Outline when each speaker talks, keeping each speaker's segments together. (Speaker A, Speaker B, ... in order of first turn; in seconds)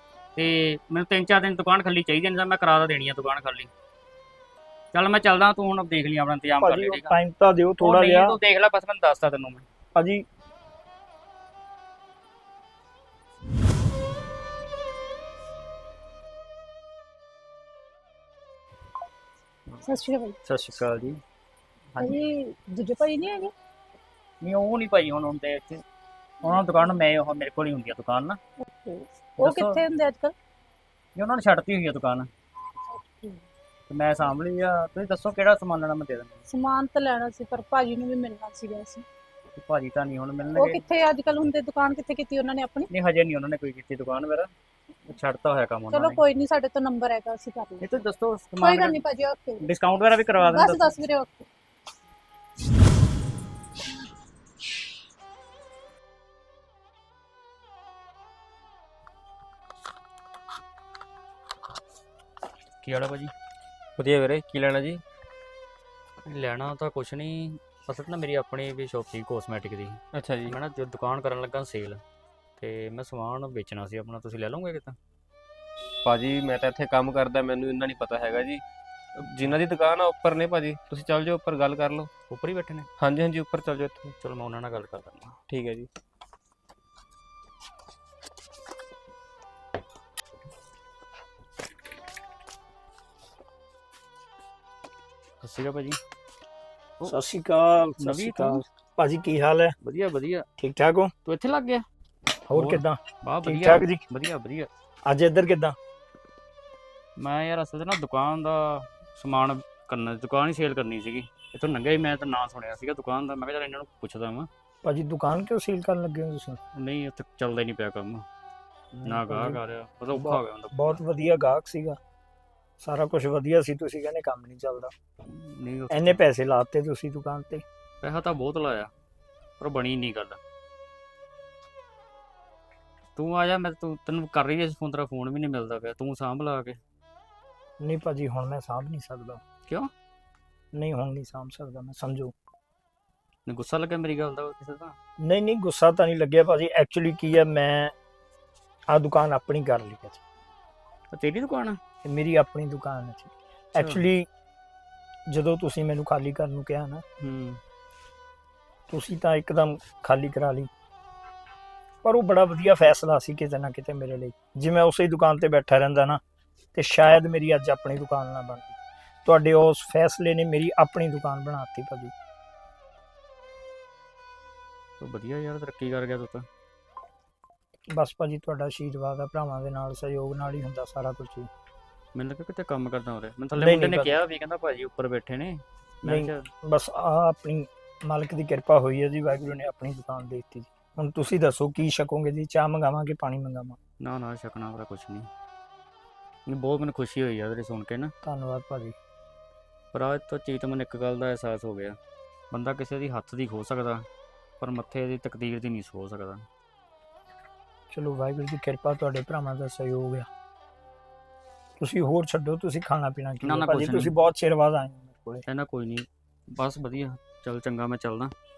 Speaker A: 0.4-3.7, 4.9-7.2, 7.8-9.6, 20.4-21.2, 24.4-25.8, 26.4-28.4, 29.4-29.8, 31.1-32.3, 33.9-36.4, 39.5-40.8, 42.9-44.5, 45.1-46.2, 47.8-49.0, 49.6-51.0, 62.8-63.3, 66.2-72.0, 72.6-75.0, 82.3-82.9, 84.2-85.3, 95.4-96.0, 98.0-98.6, 99.8-100.5, 101.2-101.8, 102.5-104.7, 107.2-114.5, 116.8-118.2, 119.0-121.0, 125.3-126.2, 128.0-128.9, 129.6-130.4, 133.2-136.8, 143.5-145.0, 151.1-151.8, 153.7-154.1, 157.2-157.6, 175.0-176.5, 182.2-186.5, 194.0-195.3, 196.5-198.1, 199.9-202.0, 202.5-204.1, 204.6-206.5, 213.4-214.1, 215.5-218.3
Speaker B: 6.6-8.4, 9.9-10.2, 97.0-99.8, 100.6-101.1, 102.5-104.0, 105.1-105.8, 114.8-116.6, 118.9-119.6, 120.1-122.0, 122.8-124.9, 125.9-127.6, 137.8-139.4, 140.7-142.3, 145.2-147.9, 148.9-150.2, 152.1-154.3, 155.3-157.0, 158.9-160.7, 162.0-166.2, 166.7-172.1, 177.9-181.5, 183.6-184.2, 186.1-193.8, 198.2-199.0, 207.9-210.3, 211.8-215.4
Speaker C: 19.9-20.4, 22.0-23.5, 28.6-30.3, 33.0-33.4, 36.5-39.0, 40.5-42.9, 45.9-47.9, 48.6-49.7, 50.4-51.5
Speaker D: 64.0-65.0, 70.1-70.5, 76.0-78.6, 79.2-82.1, 83.0-84.1, 85.5-85.9